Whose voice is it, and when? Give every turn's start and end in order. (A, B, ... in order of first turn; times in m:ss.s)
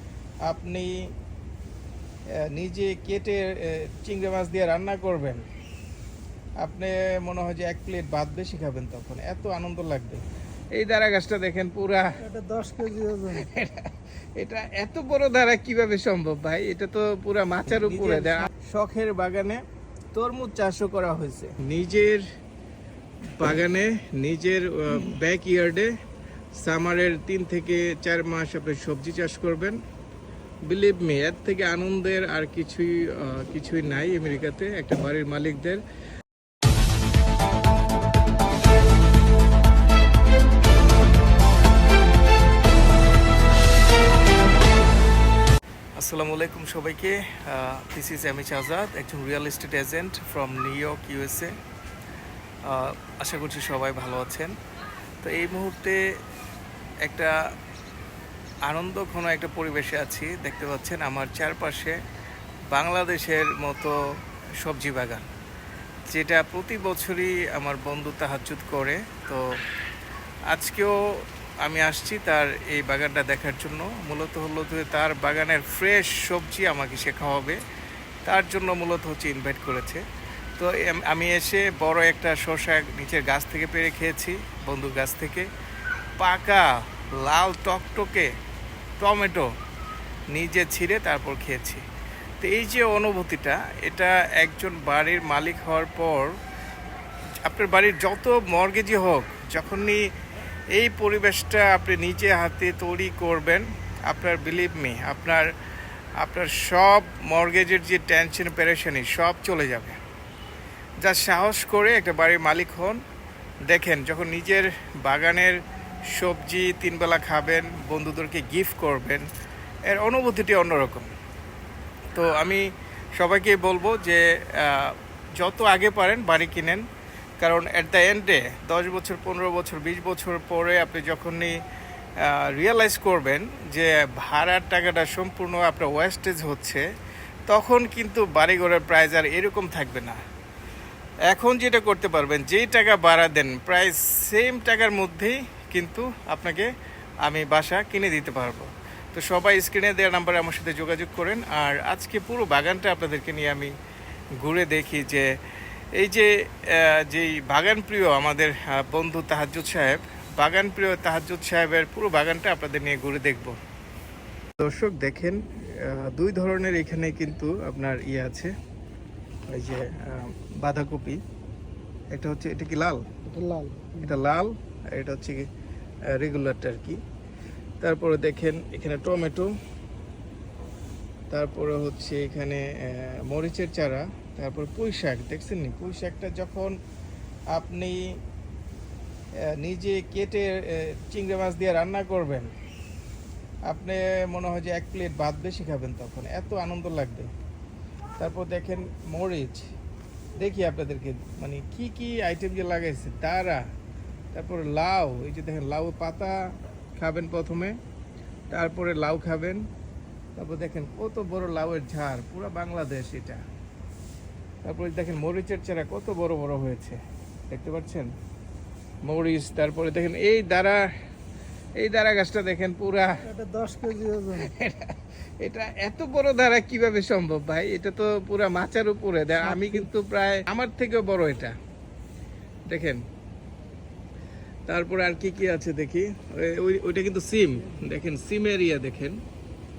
0:00.4-0:01.1 A
0:02.4-0:05.5 A
0:06.6-0:12.2 A
0:12.2-0:13.5 B
0:13.2-0:22.2 A
0:17.9-0:18.5 B
0:23.4-0:25.9 A
0:26.6-0:29.8 A
0:30.7-0:35.8 A
0:46.0-0:51.6 A
0:52.6-0:54.6 A
0:55.2-0:56.2 A
0:57.0-0:57.4 A
0:58.6-1:02.0 A
1:02.7-1:05.3 A
1:06.1-1:09.6 A
1:10.5-1:17.6 A
1:18.2-1:20.0 A
1:20.6-1:25.5 A
1:26.2-1:28.3 A
1:29.0-1:29.5 A
1:30.3-1:31.8 A
1:32.4-1:36.3 A
1:37.4-1:40.1 A
1:40.7-1:45.5 A
1:46.2-1:50.0 A
1:51.0-1:53.0 A
1:53.7-1:59.3 A
1:59.9-2:01.1 A
2:02.1-2:06.8 A
2:07.4-2:11.6 A
2:12.2-2:16.8 A
2:17.5-2:20.2 A
2:21.3-2:26.7 A
2:27.2-2:33.7 A
2:34.4-2:35.4 A
2:35.9-2:43.6 A
2:44.6-2:48.5 A
2:49.5-2:51.2 A
2:52.1-2:53.1 A
2:53.2-2:54.1 B
2:54.0-2:55.5 A
2:56.1-2:57.0 A
2:57.8-2:59.6 A
3:01.3-3:06.8 A
3:07.5-3:08.2 A
3:09.4-3:12.5 A
3:13.7-3:17.3 A
3:18.2-3:19.7 A
3:20.4-3:23.6 A
3:24.3-3:27.8 A
3:28.5-3:29.7 A
3:30.4-3:33.4 A
3:34.6-3:38.1 A
3:39.0-3:40.9 A
3:41.8-3:43.2 A
3:43.2-3:44.5 B
3:44.3-3:51.5 A
3:52.7-3:53.0 A
3:54.7-3:59.2 A